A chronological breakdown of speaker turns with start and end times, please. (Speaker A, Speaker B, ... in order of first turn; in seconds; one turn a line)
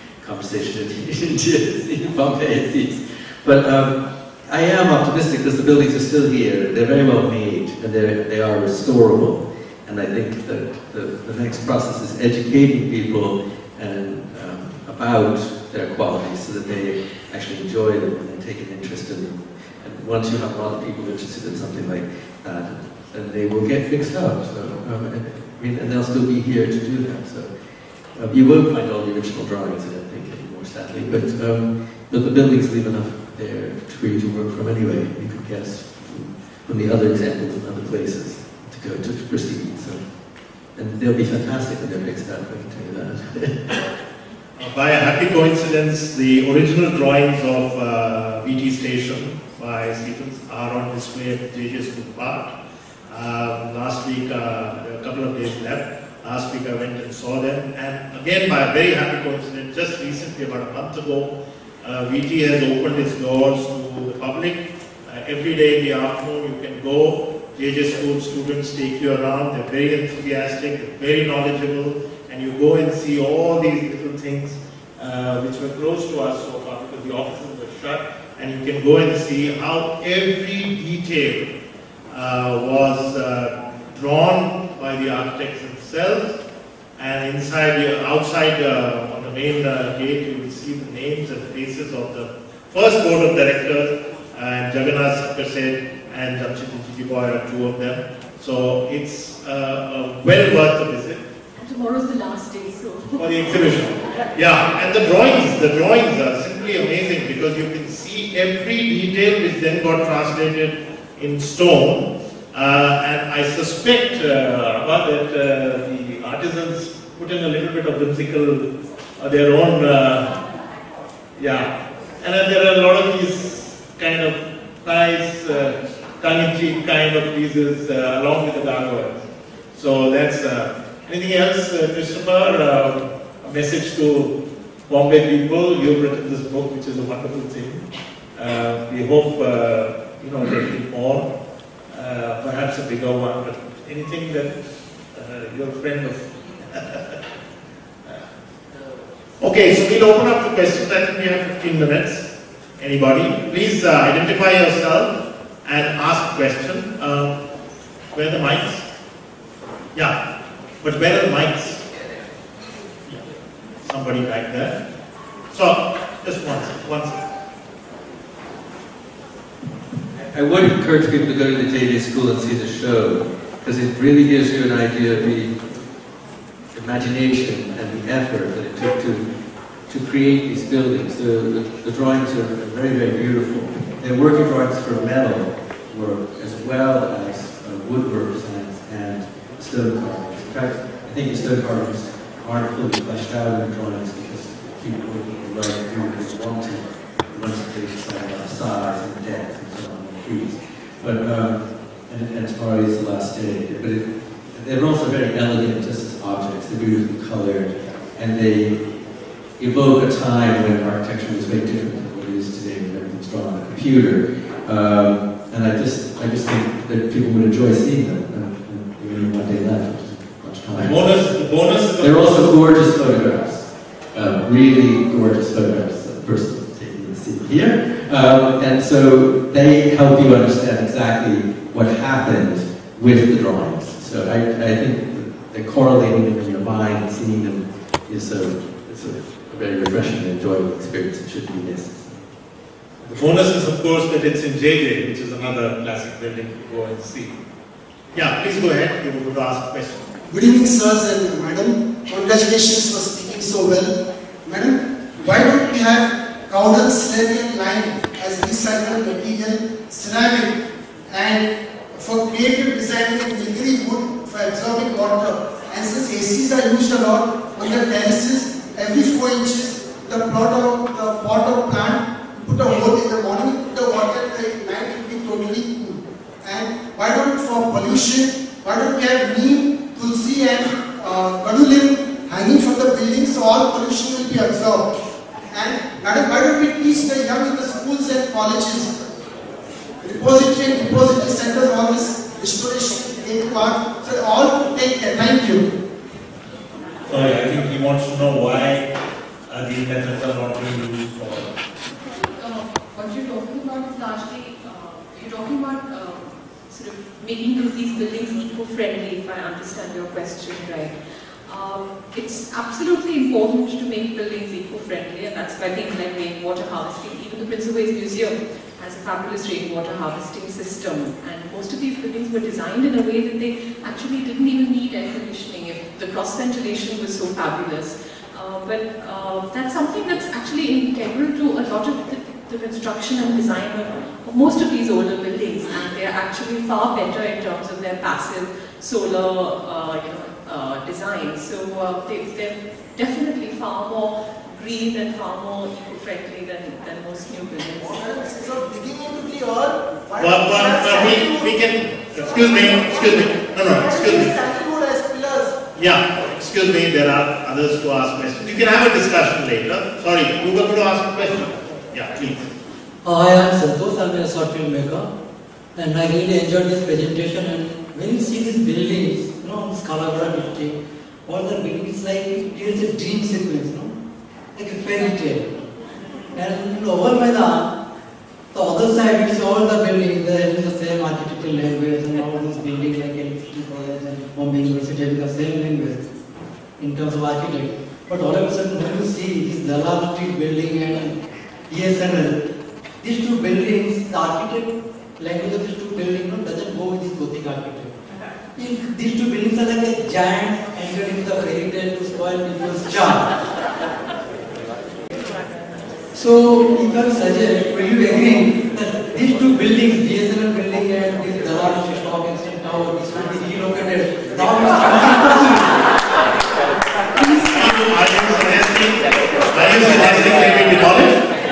Speaker A: 0.2-27.5
Speaker A: 28.1-40.0
Speaker A: 40.8-43.7
Speaker B: 44.6-52.5
Speaker B: 53.1-81.5
Speaker B: 82.1-86.4
Speaker B: 87.0-101.2
Speaker C: 101.6-103.7
Speaker B: 103.2-118.7
Speaker B: 119.2-120.3
Speaker B: 121.3-134.4
Speaker B: 134.9-141.3
Speaker B: 141.9-144.5
Speaker B: 145.1-147.2
Speaker B: 149.4-157.3
Speaker B: 158.1-158.8
Speaker B: 160.8-161.8
Speaker B: 163.8-164.8
Speaker B: 165.5-167.2
Speaker A: 170.2-175.5
Speaker A: 176.7-179.2
Speaker A: 179.9-208.9
Speaker A: 209.6-221.1
Speaker B: 220.8-222.5
Speaker A: 222.0-242.3
Speaker B: 243.0-247.3
Speaker B: 248.1-250.1
Speaker D: 250.3-284.9
Speaker D: 285.5-288.9
Speaker D: 290.0-295.7
Speaker B: 297.1-298.9
Speaker B: 299.5-301.5
Speaker C: 302.1-310.9
Speaker C: 311.5-348.0
Speaker D: 347.9-351.6
Speaker B: 350.2-354.4
Speaker D: 352.2-355.6
Speaker B: 355.8-362.5
Speaker E: 363.0-365.1
Speaker E: 365.7-373.9
Speaker E: 374.5-375.5
Speaker E: 376.3-377.7
Speaker E: 378.5-386.1
Speaker E: 386.8-391.2
Speaker E: 391.7-392.4
Speaker E: 393.0-398.0
Speaker E: 398.6-403.3
Speaker E: 406.1-415.8
Speaker B: 417.4-421.2